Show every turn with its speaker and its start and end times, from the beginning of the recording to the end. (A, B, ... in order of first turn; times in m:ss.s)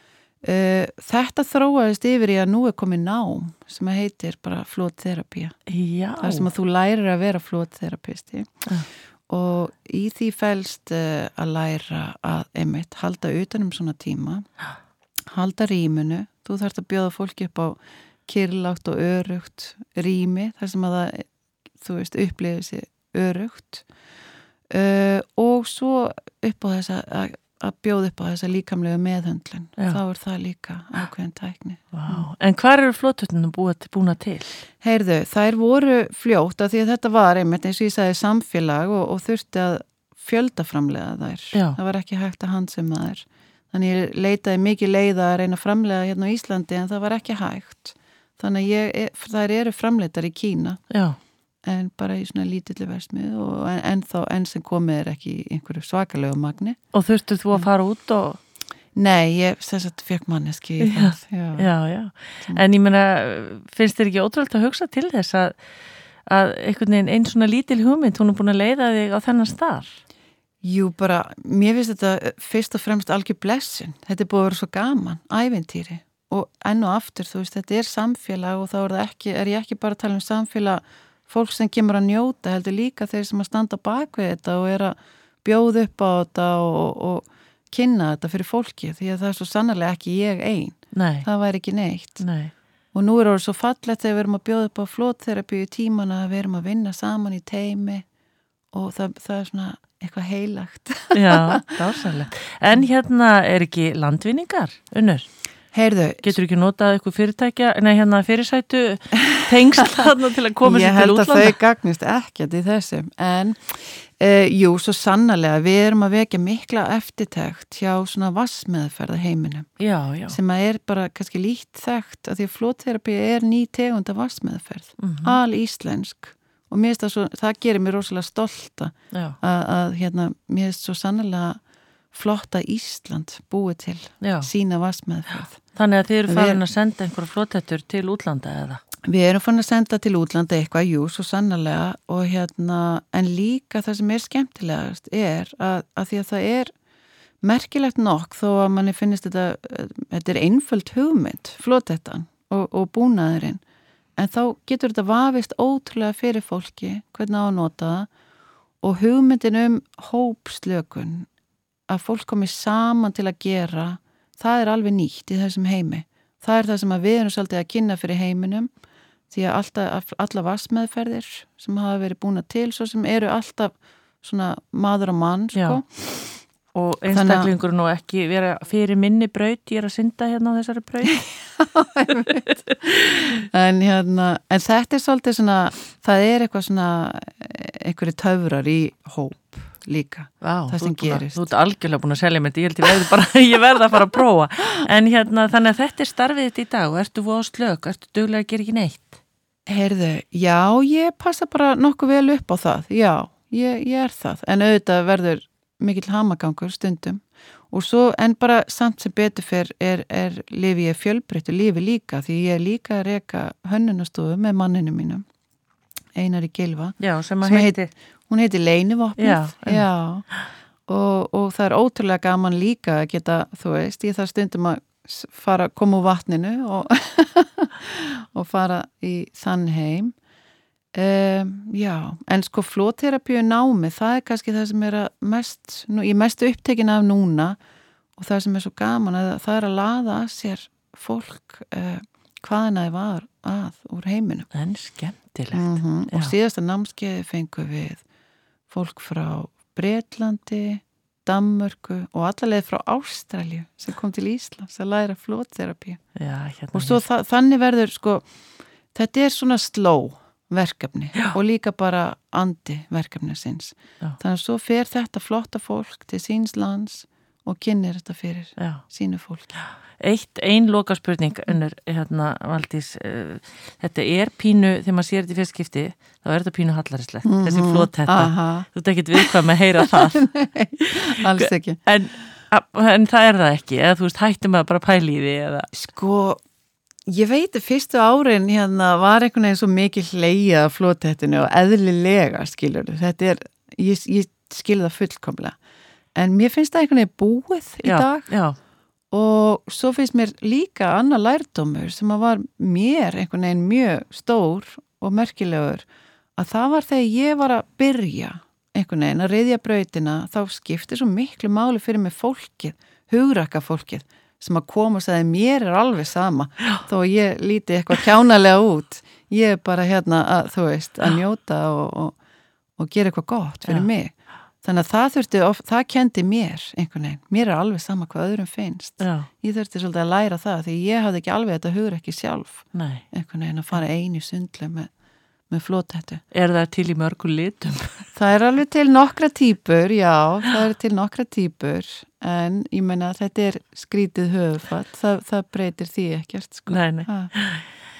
0:00.4-0:05.6 A
0:05.7-0:06.5 B
0:06.2-0:08.5 A
0:09.3-0:14.5 A
0:15.3-0:21.2 A
0:21.8-0:23.8 A
0:24.7-0:32.3 A
0:31.9-0:34.6 B
0:34.8-0:50.8 A
0:50.9-0:51.2 B
0:51.6-0:56.8 A
0:56.9-0:58.4 B
0:58.9-1:01.7 A
1:00.8-1:05.5 B
1:06.3-1:10.0 B
1:10.6-1:32.2 A
1:30.9-1:31.3 B
1:32.2-1:32.5 B
1:32.9-1:38.0 A
1:38.7-1:41.7 A
1:41.1-1:45.3 B
1:45.7-1:46.4 A
1:46.2-1:51.6 B
1:50.6-1:59.7 A
1:59.8-2:00.4 B
2:00.3-2:11.6 A
2:05.0-2:05.4 B
2:09.1-2:09.4 B
2:12.1-2:15.6 A
2:14.2-2:14.5 B
2:15.7-2:18.8 B
2:16.3-2:16.6 A
2:19.0-2:26.7 A
2:27.4-2:33.6 A
2:34.2-2:38.1 A
2:38.8-2:41.3 A
2:41.9-2:48.7 A
2:49.3-2:56.0 A
2:55.5-2:55.8 B
2:56.7-3:01.2 B
2:57.1-2:57.5 A
3:01.2-3:11.4 A
3:02.1-3:02.4 B
3:10.4-3:19.2 B
3:19.6-3:35.2 A
3:36.2-3:37.8 A
3:37.0-3:37.9 B
3:38.3-3:40.2 A
3:39.2-3:39.8 B
3:40.9-3:50.1 A
3:50.9-3:57.6 A
3:58.2-4:04.5 A
4:04.5-4:06.3 B
4:05.5-4:08.0 A
4:08.7-4:16.0 A
4:16.2-4:17.0 B
4:16.7-4:18.2 A
4:18.9-4:29.6 A
4:28.6-4:28.8 B
4:29.6-4:40.2 B
4:37.2-4:38.7 A
4:40.0-4:41.8 A
4:40.8-4:45.7 B
4:45.7-4:46.4 A
4:47.1-4:55.6 A
4:56.1-4:58.3 A
4:57.8-4:58.6 B
4:59.1-5:05.8 A
5:06.4-5:22.1 A
5:22.8-5:24.1 A
5:24.6-5:34.9 A
5:29.0-5:29.3 B
5:32.7-5:33.0 B
5:35.5-5:36.2 A
5:36.3-5:38.1 B
5:38.1-5:47.3 A
5:46.7-5:47.6 B